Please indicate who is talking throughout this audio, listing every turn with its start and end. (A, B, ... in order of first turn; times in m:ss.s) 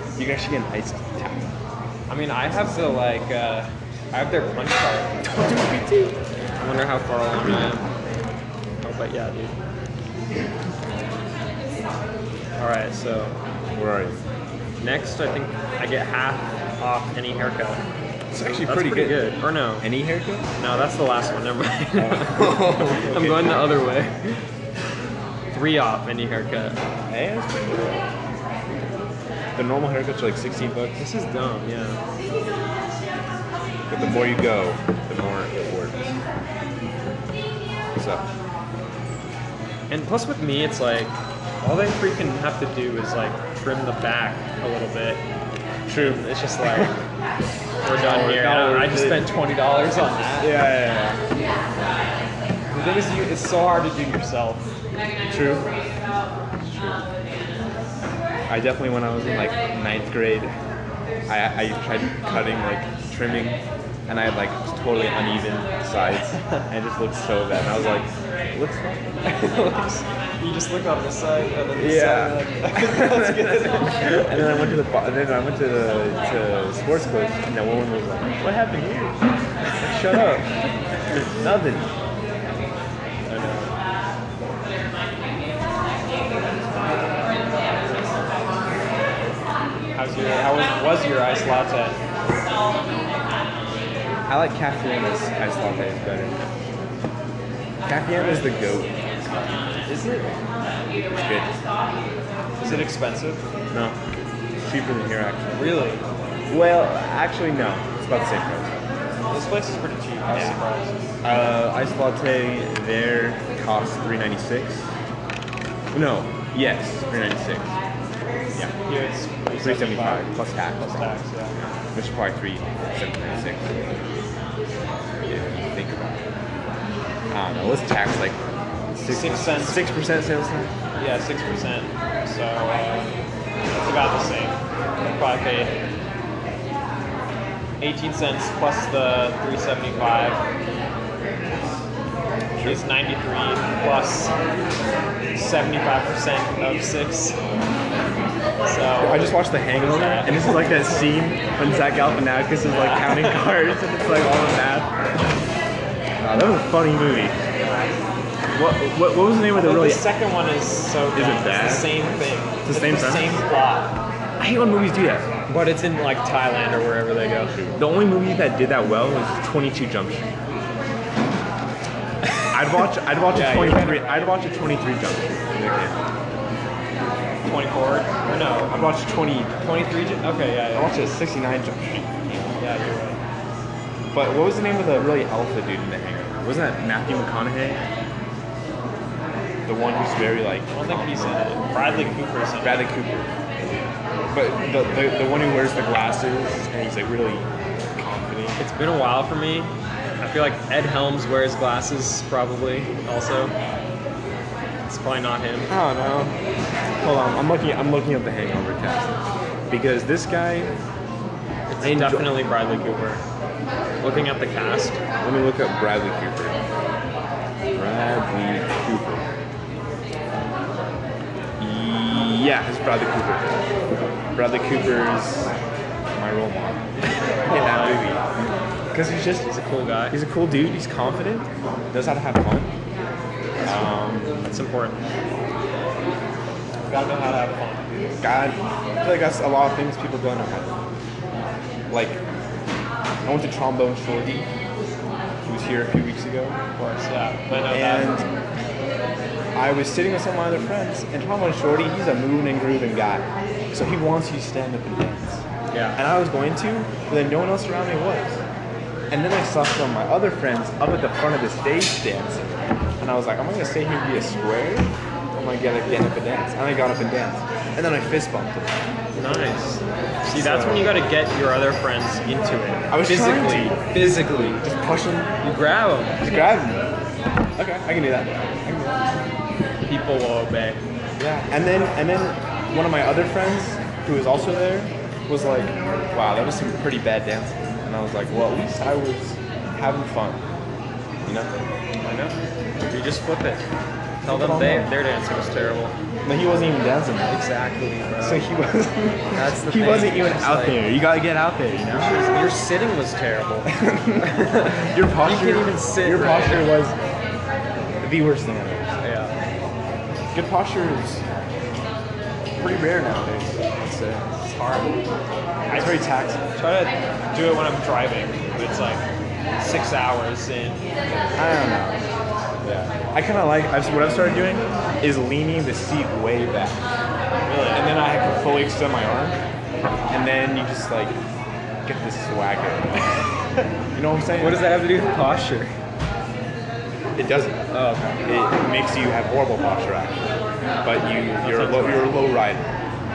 0:00.2-0:01.5 A
0:02.1-0:05.2 B
0:05.2-0:06.2 A
0:06.6-0:07.9 B
0:08.8-0:09.5 B
0:12.6-0:13.4 B
0:13.7-0:14.2 A
0:14.8-0:17.8 B
0:18.3-0:20.5 A
0:18.5-0:19.9 B
0:20.6-0:24.4 B
0:22.0-0:23.8 A
0:25.5-0:26.8 B
0:27.1-0:28.1 A
0:29.5-0:31.0 A
0:31.0-0:32.0 B
0:33.9-0:36.2 A
0:37.9-0:38.2 A
0:39.9-0:45.2 B
0:45.9-0:46.9 A
0:45.9-0:46.9 B
0:47.8-0:50.6 B
0:47.9-0:49.3 A
0:50.4-0:51.2 A
0:52.7-0:54.7 B
0:55.2-0:55.7 A
0:56.6-0:57.0 A
0:58.5-1:00.5 A
1:01.3-1:09.2 A
1:09.2-1:14.6 B
1:11.7-1:19.2 A
1:19.8-1:20.5 A
1:21.1-1:21.9 A
1:23.3-1:23.7 B
1:26.8-1:27.3 B
1:27.8-1:28.2 B
1:29.9-1:32.0 B
1:34.3-1:36.4 A
1:37.8-1:39.0 A
1:38.2-1:38.5 B
1:39.8-1:40.3 B
1:41.2-1:41.5 A
1:42.6-1:43.4 B
1:42.6-1:42.9 A
1:43.7-1:44.0 A
1:44.6-1:45.7 A
1:45.5-1:46.0 B
1:46.5-1:48.8 A
1:49.3-1:51.0 B
1:50.2-1:50.6 A
1:51.2-1:54.9 A
1:55.9-1:57.8 A
1:58.8-2:01.6 B
1:59.6-2:01.1 A
2:01.9-2:03.9 A
2:05.2-2:06.2 A
2:07.3-2:08.4 A
2:08.9-2:10.7 A
2:09.0-2:09.8 B
2:11.0-2:13.2 B
2:13.8-2:15.8 B
2:17.8-2:20.4 B
2:22.6-2:22.8 A
2:22.6-2:24.3 B
2:25.3-2:27.4 B
2:28.6-2:31.0 B
2:29.0-2:35.0 A
2:32.6-2:33.4 B
2:36.2-2:37.4 A
2:38.5-2:40.1 A
2:39.5-2:43.9 B
2:41.1-2:42.0 A
2:42.6-2:43.4 A
2:44.4-2:45.3 A
2:45.5-2:47.6 B
2:47.6-2:50.3 A
2:52.5-2:56.0 A
2:53.3-2:54.3 B
2:57.4-2:58.8 B
2:58.6-3:02.6 A
2:59.8-3:01.0 B
3:02.6-3:03.2 B
3:04.1-3:07.8 A
3:09.6-3:11.5 A
3:10.7-3:12.9 B
3:12.6-3:13.3 A
3:14.3-3:18.6 A
3:18.6-3:23.5 B
3:24.9-3:25.7 B
3:25.7-3:26.4 A
3:27.0-3:30.8 A
3:31.7-3:33.2 B
3:31.8-3:32.4 A
3:34.0-3:35.0 B
3:35.2-3:36.6 A
3:37.7-3:39.2 A
3:41.6-3:43.7 A
3:44.3-3:45.5 A
3:46.1-3:46.9 A
3:47.4-3:48.1 B
3:47.4-3:48.2 A
3:48.9-3:49.5 A
3:49.4-3:50.2 B
3:50.1-3:52.7 A
3:53.6-3:54.4 A
3:54.4-3:55.0 B
3:56.9-3:58.0 B
3:58.2-4:00.8 A
4:01.9-4:02.2 A
4:03.2-4:04.5 A
4:05.4-4:06.6 A
4:06.8-4:08.1 B
4:07.7-4:08.3 A
4:09.5-4:18.4 A
4:15.7-4:16.0 B
4:19.1-4:28.8 A
4:29.1-4:34.6 B
4:30.3-4:30.9 A
4:32.9-4:35.3 A
4:35.4-4:36.5 B
4:36.2-4:36.9 A
4:37.6-4:39.1 A
4:39.8-4:40.8 B
4:41.2-4:50.4 A
4:51.2-4:51.5 A
4:52.0-4:53.6 B
4:54.2-4:56.0 B
4:54.2-4:54.9 A
4:56.2-4:57.4 A
4:57.3-4:58.4 B
4:58.2-5:02.2 A
4:59.3-5:00.8 B
5:02.0-5:06.7 B
5:03.7-5:07.0 A
5:08.0-5:09.0 A
5:09.0-5:09.3 B
5:10.3-5:11.2 A
5:12.6-5:14.4 A
5:14.4-5:15.0 B
5:15.7-5:19.0 B
5:15.7-5:16.4 A
5:19.6-5:20.8 B
5:21.3-5:22.0 A
5:22.6-5:22.9 B
5:23.1-5:26.9 A
5:27.4-5:27.9 B
5:27.7-5:29.4 A
5:30.1-5:31.2 A
5:31.8-5:33.2 A
5:33.9-5:34.7 A
5:34.4-5:35.7 B
5:37.1-5:37.7 A
5:37.7-5:38.2 B
5:38.2-5:40.3 A
5:40.8-5:42.7 A
5:41.4-5:42.2 B